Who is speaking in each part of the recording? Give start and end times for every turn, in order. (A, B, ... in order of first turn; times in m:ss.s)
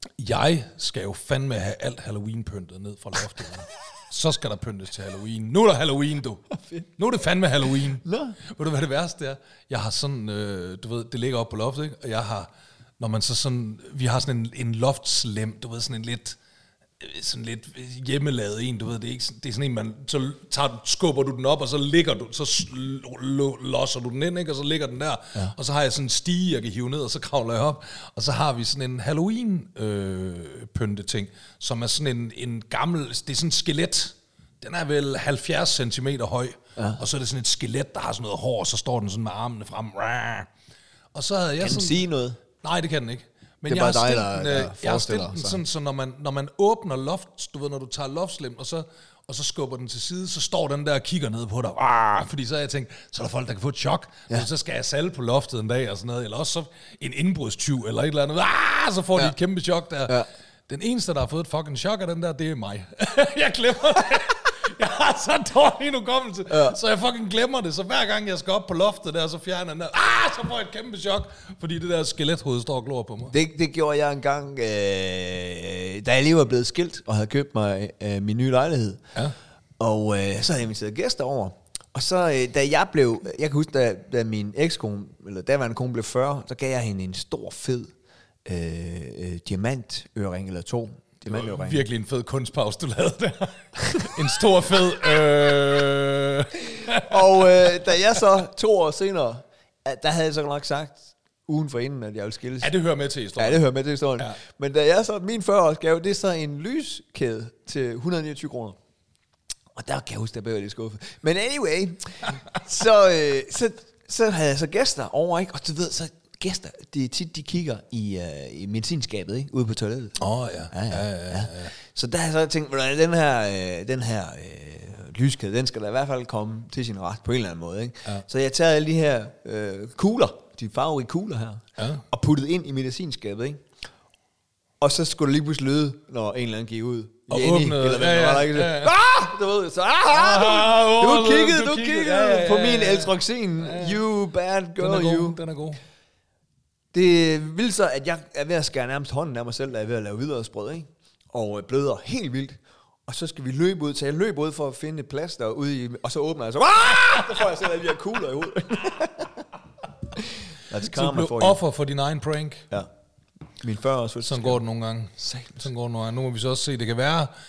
0:00.2-0:16.4 A
0:06.6-0:06.8 B
0:08.0-0:08.4 B
0:17.0-0:40.5 A
0:36.8-0:37.0 B
0:41.1-0:42.0 A
0:41.6-0:42.4 B
0:42.6-1:13.3 A
0:43.6-0:45.6 B
1:06.5-1:06.8 B
1:13.3-1:19.0 B
1:19.8-1:27.9 B
1:28.4-1:31.9 B
1:31.3-1:37.2 A
1:33.8-1:34.1 B
1:37.0-1:42.7 B
1:42.6-1:43.6 A
1:43.4-1:48.8 B
1:49.7-2:13.6 B
2:00.2-2:01.7 A
2:11.8-2:12.0 A
2:14.8-2:25.4 B
2:17.3-2:19.0 A
2:20.1-2:24.0 A
2:24.8-2:25.8 A
2:26.9-2:39.4 B
2:40.1-2:41.6 B
2:40.8-2:42.6 A
2:43.6-2:44.6 B
2:44.2-2:47.3 A
2:45.2-2:45.7 B